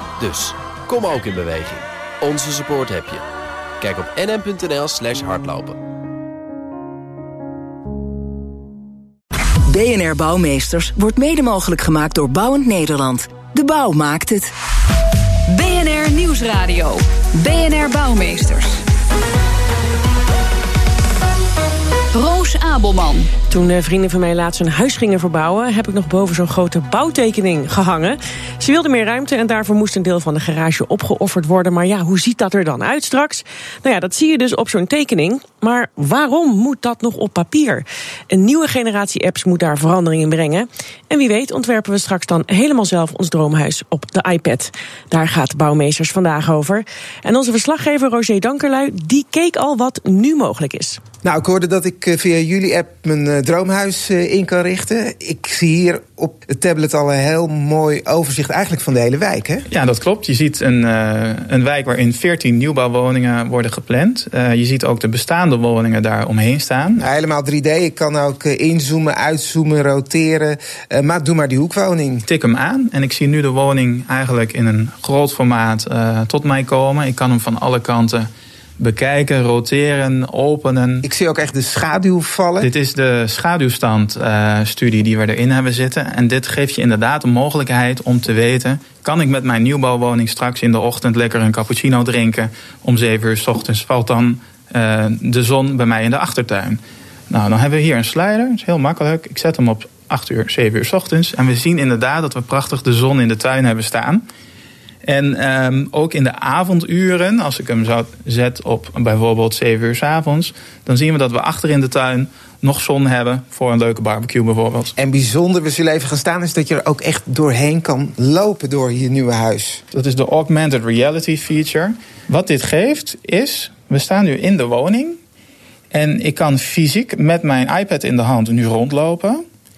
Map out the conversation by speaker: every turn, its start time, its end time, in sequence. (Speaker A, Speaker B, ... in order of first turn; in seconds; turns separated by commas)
Speaker A: 0.2-3.2, Speaker A: 3.8-5.8, Speaker B: 9.7-14.5, Speaker C: 15.5-18.8, Speaker C: 22.1-23.3, Speaker D: 23.5-51.0, Speaker E: 51.2-59.7, Speaker F: 59.7-67.0, Speaker E: 67.0-72.2, Speaker F: 72.3-81.0, Speaker E: 81.0-82.7, Speaker F: 82.6-104.3, Speaker F: 105.0-115.0, Speaker E: 115.0-119.8, Speaker F: 119.9-125.2, Speaker F: 125.9-129.4